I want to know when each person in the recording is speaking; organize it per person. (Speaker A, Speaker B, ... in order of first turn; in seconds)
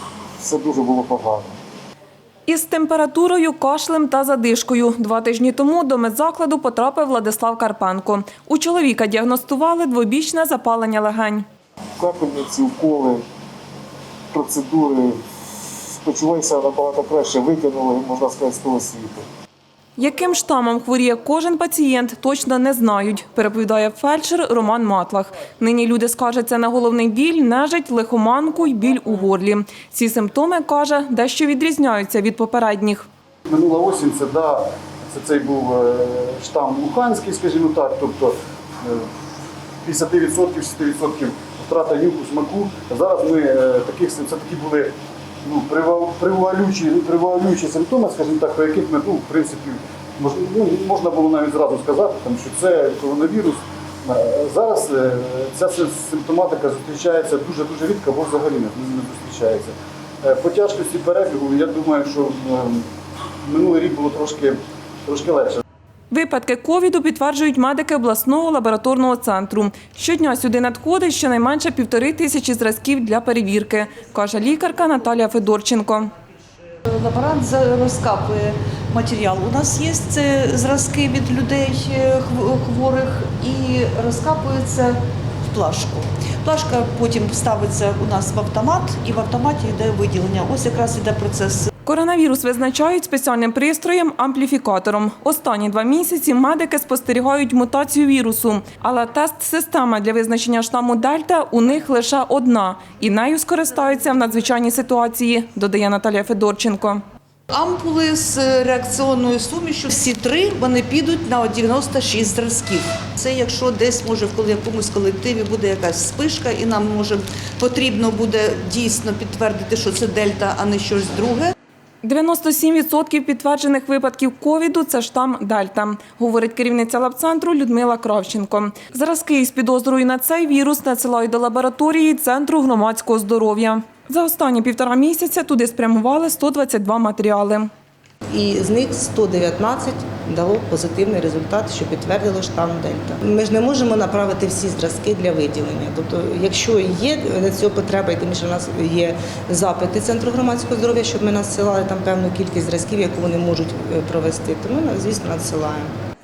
Speaker A: 0.4-1.5, 12.0-13.2, 14.3-15.2, 15.9-19.2
Speaker B: 2.5-11.4, 20.0-33.0, 66.1-76.1, 91.8-107.0, 122.0-137.7
Speaker C: 33.5-39.1, 39.8-62.8, 63.4-65.6
Speaker D: 76.9-91.7, 107.5-121.5
Speaker E: 138.3-155.9